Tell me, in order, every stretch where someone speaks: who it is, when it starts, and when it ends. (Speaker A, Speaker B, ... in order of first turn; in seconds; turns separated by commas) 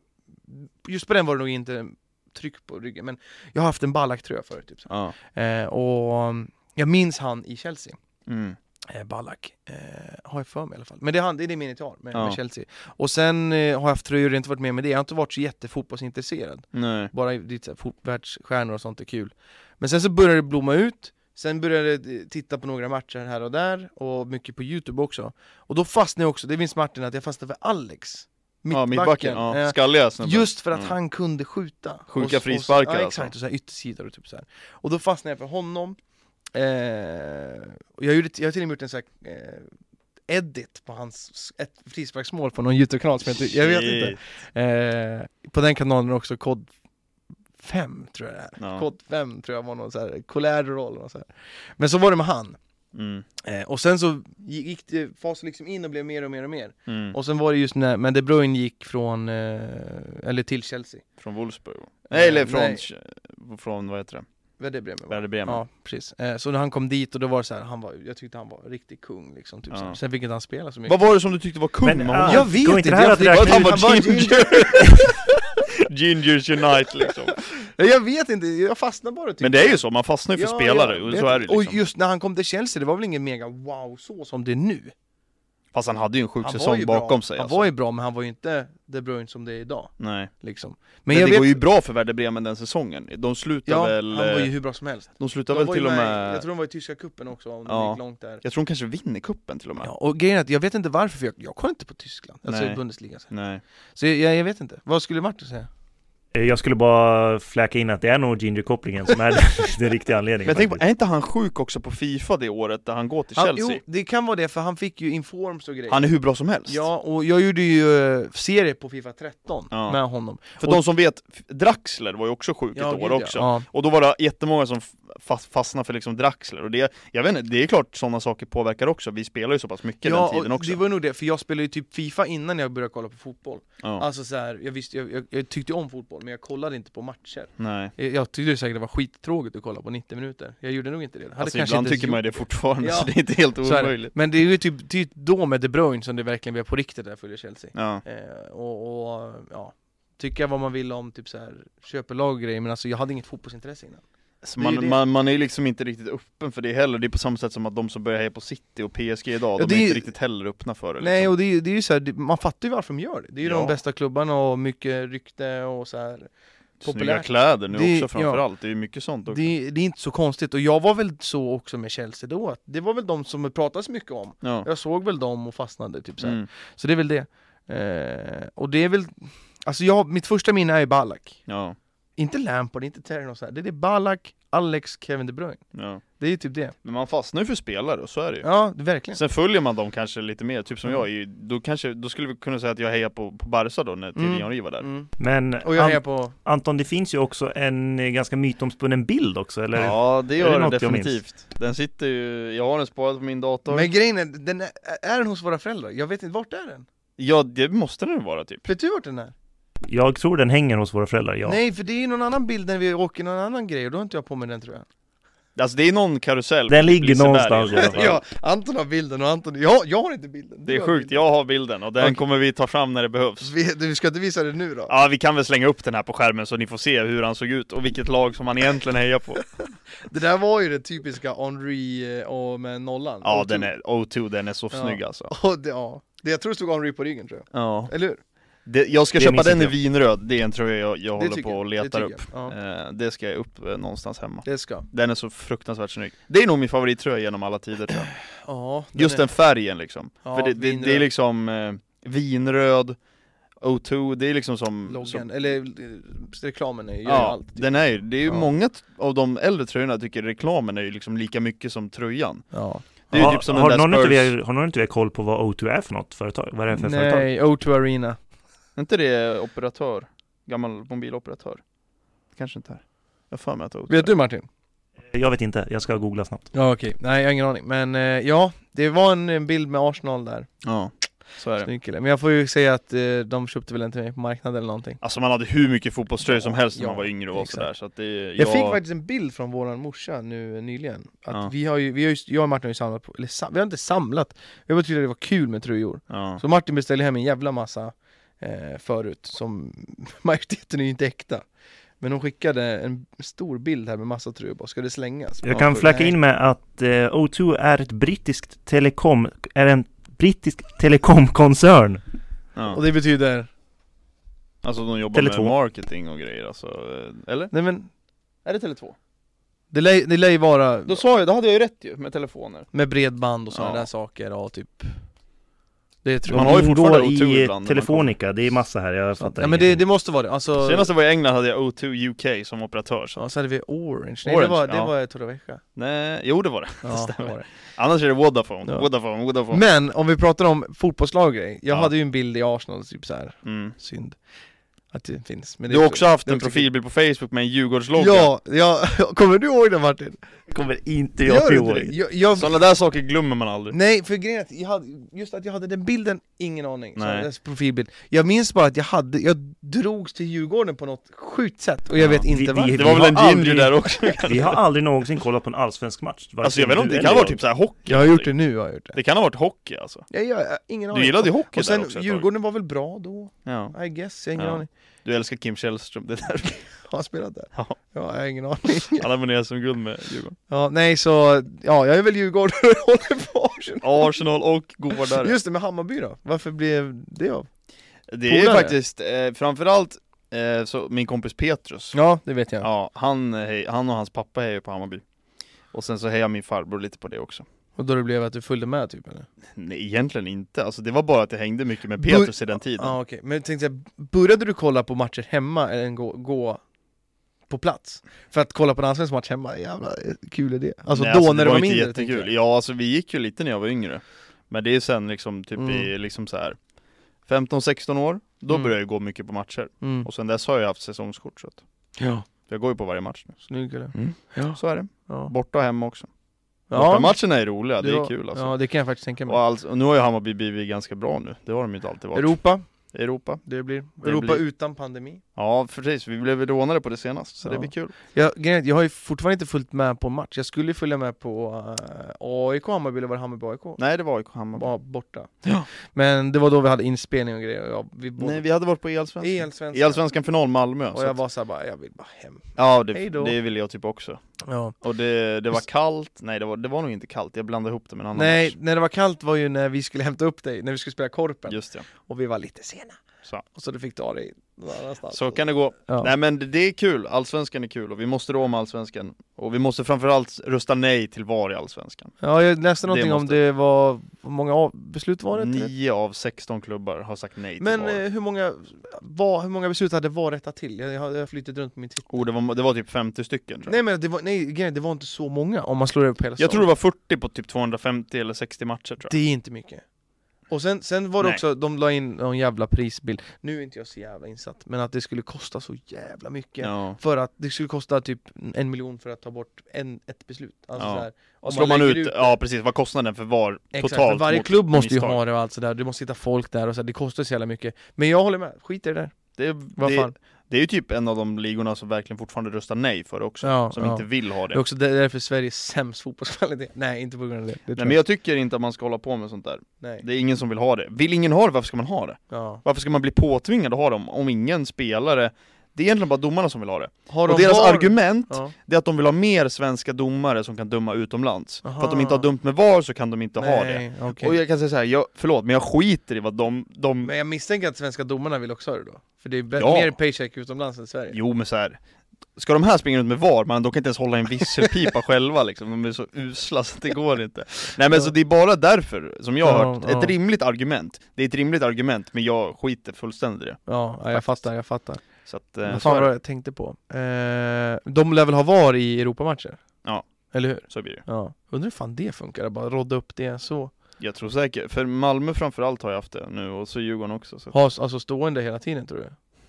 Speaker A: 0.5-8.0, Speaker B: 4.9-5.1, Speaker B: 8.3-8.6, Speaker A: 8.9-36.0, Speaker B: 16.7-17.1, Speaker B: 28.7-30.9, Speaker B: 32.1-33.3, Speaker A: 36.5-39.7, Speaker A: 40.3-46.7, Speaker B: 43.5-44.2, Speaker A: 47.6-51.3, Speaker B: 48.6-48.9, Speaker A: 51.8-52.6, Speaker B: 52.9-53.2, Speaker A: 53.4-61.0, Speaker B: 56.9-57.1, Speaker B: 61.2-64.2, Speaker A: 62.1-62.8, Speaker A: 64.6-71.0, Speaker B: 65.1-65.6, Speaker B: 69.7-70.0, Speaker B: 70.9-72.5, Speaker C: 71.8-74.1, Speaker A: 72.2-75.1, Speaker B: 73.3-75.2, Speaker B: 75.8-77.4, Speaker A: 77.4-79.8, Speaker B: 79.4-81.8, Speaker A: 80.3-84.9, Speaker B: 85.7-87.7, Speaker A: 86.4-91.6, Speaker B: 90.0-90.3, Speaker B: 91.1-94.5, Speaker A: 93.7-98.4, Speaker B: 95.2-96.4, Speaker B: 97.7-99.9, Speaker A: 99.8-103.3, Speaker B: 102.5-103.6, Speaker A: 104.0-105.7, Speaker C: 106.3-110.8, Speaker B: 110.4-113.8, Speaker A: 113.3-116.0, Speaker B: 115.9-116.8, Speaker A: 116.7-120.8, Speaker B: 119.7-120.0, Speaker B: 120.6-130.8, Speaker A: 122.8-123.7, Speaker A: 130.0-154.0, Speaker B: 137.6-137.9, Speaker B: 141.4-144.1, Speaker B: 147.7-148.0, Speaker B: 154.4-161.3, Speaker A: 154.6-155.0, Speaker A: 159.6-160.1, Speaker A: 161.0-166.3, Speaker B: 163.4-163.8, Speaker A: 166.8-168.4, Speaker B: 166.8-169.5, Speaker A: 169.3-181.4, Speaker B: 176.2-176.5, Speaker B: 181.5-181.8, Speaker A: 182.2-185.6, Speaker B: 185.7-186.0, Speaker A: 186.2-186.7, Speaker B: 186.8-188.5, Speaker A: 188.4-189.2, Speaker B: 189.1-194.8, Speaker A: 194.2-195.1, Speaker C: 195.2-201.2, Speaker A: 195.6-196.3, Speaker B: 199.7-203.9, Speaker A: 203.7-206.8, Speaker B: 207.2-208.6, Speaker A: 208.6-209.3, Speaker C: 209.8-211.6, Speaker A: 211.4-214.8, Speaker B: 215.6-218.2, Speaker C: 216.7-218.2, Speaker A: 217.8-221.2, Speaker B: 220.7-223.5, Speaker A: 223.4-224.9, Speaker B: 224.9-229.5, Speaker A: 230.0-233.7, Speaker B: 233.2-235.3, Speaker A: 234.7-238.2, Speaker B: 237.5-237.9, Speaker B: 238.6-248.1, Speaker C: 239.2-239.7, Speaker A: 241.2-242.5, Speaker A: 244.4-244.8, Speaker A: 248.0-249.3, Speaker B: 248.9-253.0, Speaker A: 250.2-251.1, Speaker B: 253.6-255.2, Speaker A: 254.9-257.7, Speaker B: 257.1-262.5, Speaker A: 258.2-258.5, Speaker A: 262.5-262.9, Speaker B: 263.1-264.3, Speaker C: 263.1-267.3, Speaker A: 266.8-268.2, Speaker B: 268.8-271.6, Speaker B: 272.4-274.1, Speaker A: 273.9-274.5, Speaker C: 275.1-276.5, Speaker A: 276.5-280.5, Speaker B: 280.6-281.7, Speaker A: 281.6-285.0, Speaker B: 285.0-288.8, Speaker A: 286.2-287.7, Speaker A: 288.4-301.4, Speaker B: 296.1-296.4, Speaker A: 302.0-306.1, Speaker C: 305.4-312.0, Speaker B: 305.5-305.8, Speaker A: 312.7-313.5, Speaker B: 314.6-317.5, Speaker C: 315.1-315.5, Speaker A: 317.5-317.9, Speaker B: 318.4-318.9, Speaker A: 319.7-321.0, Speaker B: 320.9-322.7, Speaker A: 322.7-325.0, Speaker B: 323.5-323.9, Speaker A: 326.0-326.7, Speaker C: 326.3-329.8, Speaker B: 326.3-328.1, Speaker A: 329.2-330.9, Speaker B: 330.6-333.2, Speaker A: 333.1-335.6, Speaker B: 334.2-334.9, Speaker B: 335.8-339.6, Speaker A: 336.8-337.4, Speaker A: 339.5-344.2, Speaker B: 343.4-343.7, Speaker A: 344.9-346.6, Speaker B: 345.7-348.3, Speaker A: 347.9-350.2, Speaker C: 350.5-351.9, Speaker A: 351.2-352.5, Speaker B: 352.3-353.8, Speaker A: 353.7-363.1, Speaker B: 357.0-357.3, Speaker B: 362.0-364.6, Speaker C: 362.2-367.4, Speaker B: 366.4-368.3, Speaker A: 367.9-369.0, Speaker B: 368.9-370.1, Speaker A: 370.1-374.7, Speaker B: 370.9-372.2, Speaker B: 373.4-373.7, Speaker B: 374.4-376.6, Speaker A: 376.7-379.1, Speaker B: 378.9-380.4, Speaker A: 380.5-384.1, Speaker B: 383.8-385.4, Speaker A: 384.9-387.5, Speaker B: 388.1-391.9, Speaker A: 388.3-388.7, Speaker A: 391.9-392.7, Speaker B: 392.6-395.0, Speaker B: 395.7-397.4, Speaker A: 397.8-399.3, Speaker B: 399.6-403.0, Speaker A: 402.0-406.6, Speaker A: 407.5-412.3, Speaker B: 410.9-416.6, Speaker A: 415.6-415.9, Speaker B: 417.3-421.6, Speaker A: 419.8-420.1, Speaker A: 422.0-422.2, Speaker B: 422.5-423.4, Speaker A: 423.4-425.3, Speaker B: 423.9-426.1, Speaker A: 426.7-427.2, Speaker B: 426.7-428.5, Speaker A: 427.8-429.4, Speaker B: 429.3-432.4, Speaker A: 432.1-432.6, Speaker B: 432.9-433.4, Speaker A: 433.4-435.2, Speaker B: 434.0-434.4, Speaker B: 435.4-437.9, Speaker A: 437.4-443.8, Speaker B: 443.8-444.7, Speaker A: 444.5-448.4, Speaker B: 445.4-445.7, Speaker B: 448.2-451.1, Speaker A: 449.2-450.1, Speaker A: 450.9-453.4, Speaker B: 452.6-454.2, Speaker A: 454.4-454.7, Speaker B: 454.8-458.5, Speaker A: 458.1-466.1, Speaker B: 461.5-461.8, Speaker B: 465.1-472.2, Speaker A: 472.2-475.7, Speaker B: 472.9-473.4, Speaker B: 475.3-478.0, Speaker A: 477.6-482.1, Speaker B: 482.1-483.7, Speaker A: 483.6-486.6, Speaker B: 486.4-489.1, Speaker A: 489.1-489.8, Speaker A: 490.5-502.3, Speaker B: 496.6-497.0, Speaker B: 500.8-505.2, Speaker A: 503.7-509.1, Speaker B: 509.4-514.6, Speaker A: 509.8-510.1, Speaker A: 513.4-518.0, Speaker B: 517.8-537.1, Speaker A: 522.3-522.6, Speaker A: 527.1-528.5, Speaker A: 531.6-532.2, Speaker A: 533.4-534.3, Speaker A: 537.0-541.2, Speaker B: 539.6-539.9, Speaker B: 541.1-541.8, Speaker B: 542.4-554.5, Speaker A: 549.4-550.1, Speaker A: 553.6-555.0, Speaker B: 555.2-556.1, Speaker A: 555.6-559.6, Speaker A: 560.3-563.7, Speaker B: 560.6-561.0, Speaker B: 564.0-567.5, Speaker A: 567.5-569.1